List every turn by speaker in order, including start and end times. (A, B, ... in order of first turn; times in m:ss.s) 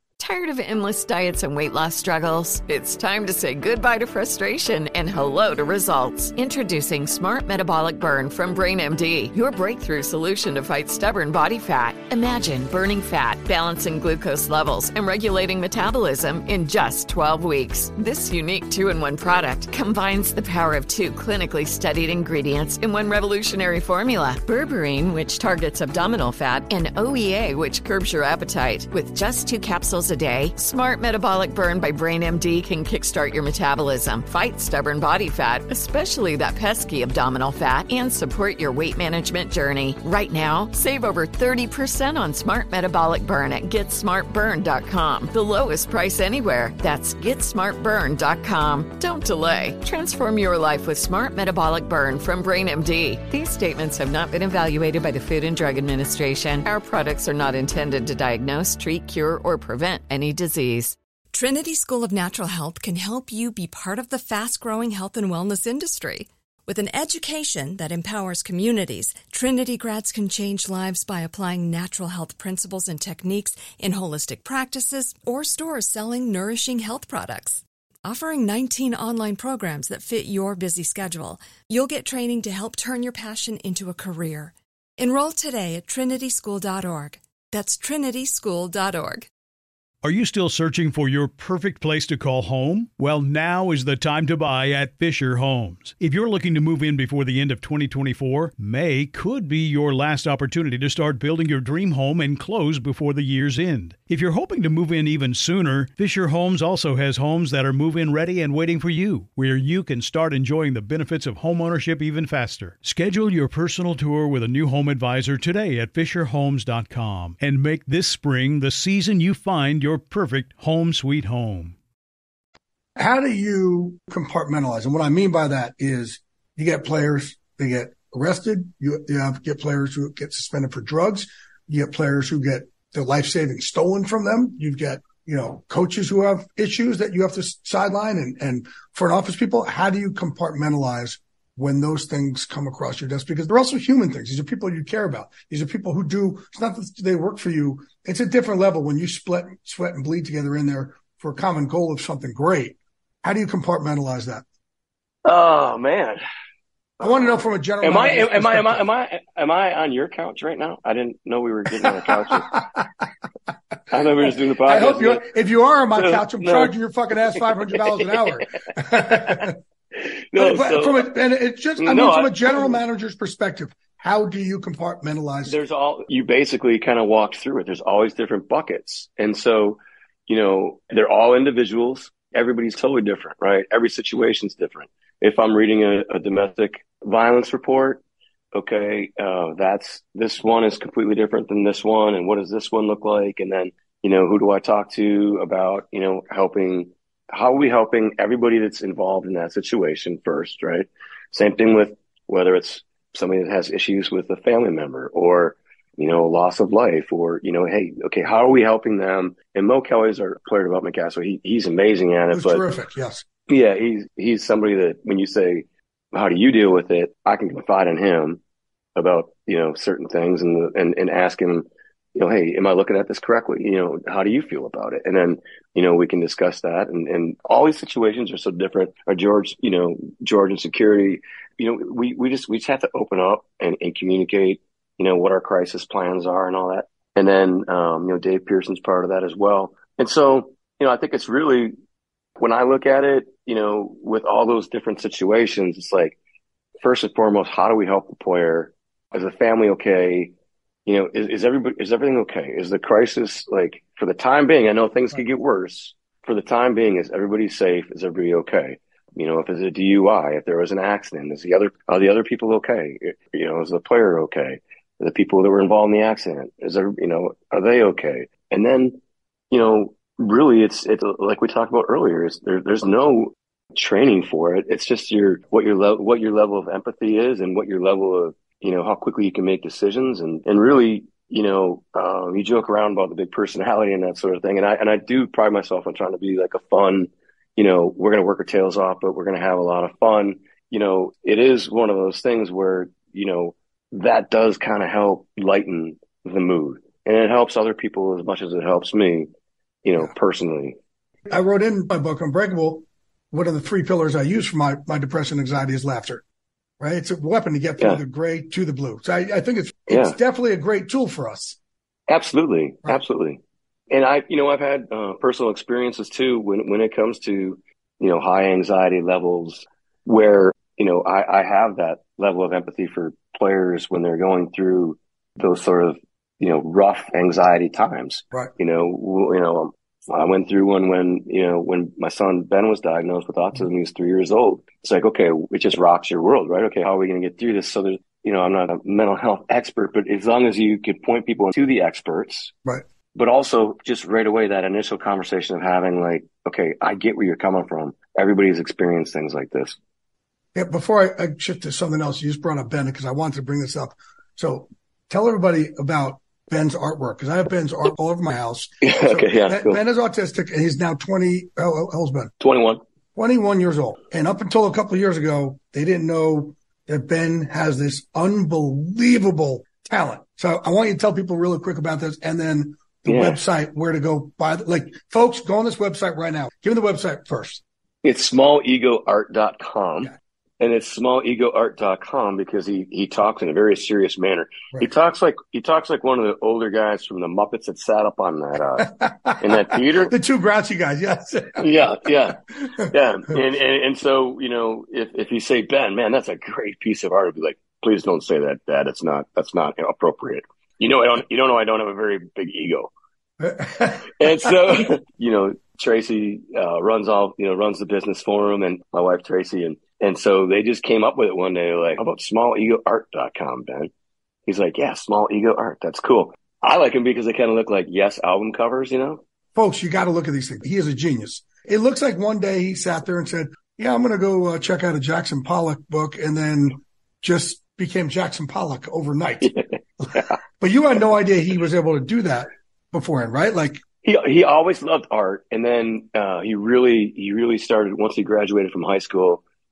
0:00.2-1:01.0 A
1:01.3-1:29.3 B
1:30.0-2:01.8 C
2:03.0-2:34.4 D
2:35.2-2:36.2 E
2:37.0-2:42.6 E
2:37.0-2:38.8 D
2:41.8-2:43.1 D
2:43.9-2:45.2 E
2:44.3-2:49.6 D
2:45.9-2:46.7 E
2:47.3-2:48.2 E
2:48.9-2:49.5 E
2:50.3-2:51.1 E
2:50.4-2:55.6 D
2:51.8-2:52.8 E
2:55.4-3:08.0 E
3:08.5-3:32.6 E
3:32.3-3:33.2 D
3:33.5-3:38.4 E
3:39.0-4:01.7 E
4:02.4-4:06.2 E
4:06.8-4:10.3 E
4:10.9-4:29.0 E
4:29.5-4:59.3 E
4:59.8-5:00.8 E
5:01.3-5:06.2 D
5:06.8-5:11.6 D
5:09.9-5:10.2 E
5:12.1-5:42.5 E
5:43.1-5:49.8 E
5:50.5-6:02.3 D
5:58.8-5:59.8 E
6:02.4-6:02.8 E
6:03.1-6:17.6 D
6:13.1-6:13.4 E
6:18.0-6:30.1 E
6:28.8-6:31.6 D
6:31.6-6:42.9 E
6:43.4-6:44.8 D
6:44.2-6:53.9 E
6:54.5-6:59.2 E
6:59.5-7:13.8 D
7:14.0-7:19.4 E